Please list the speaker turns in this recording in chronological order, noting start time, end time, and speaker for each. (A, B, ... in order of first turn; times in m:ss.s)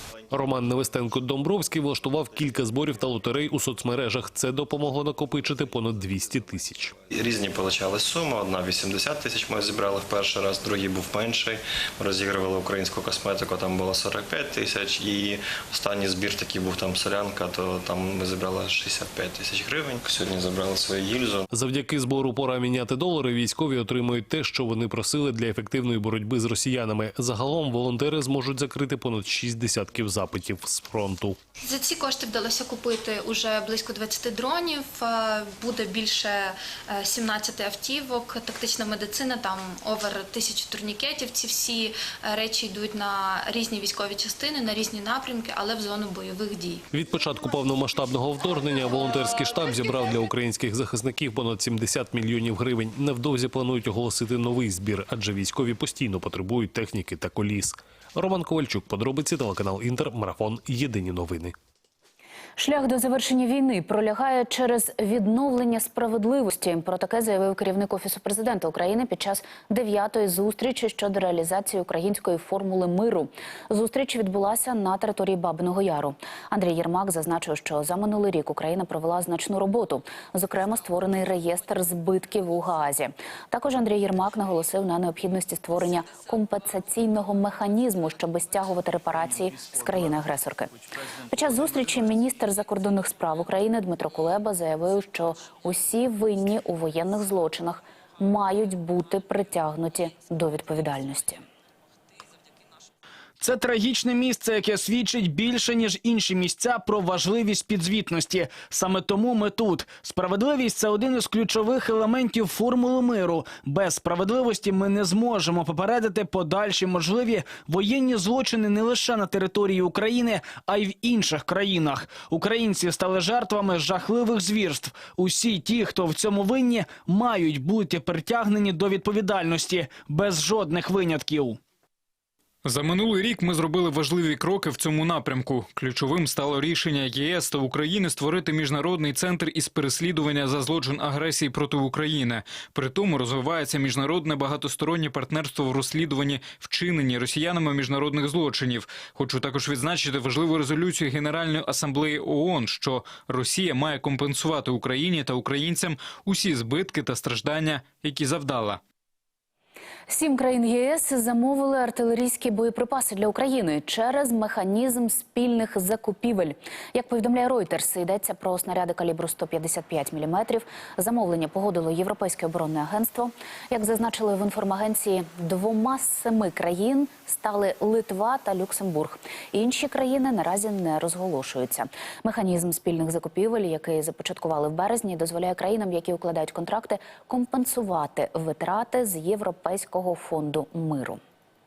0:00.3-0:06.9 A
0:07.1-0:21.5 B
0:21.5-0:31.4 A
0:31.6-0:46.8 C
0:46.9-1:01.5 A
1:02.6-1:30.7 D
1:31.3-1:41.4 D
1:43.4-2:11.6 E
2:12.6-2:38.8 F
2:40.1-3:11.2 D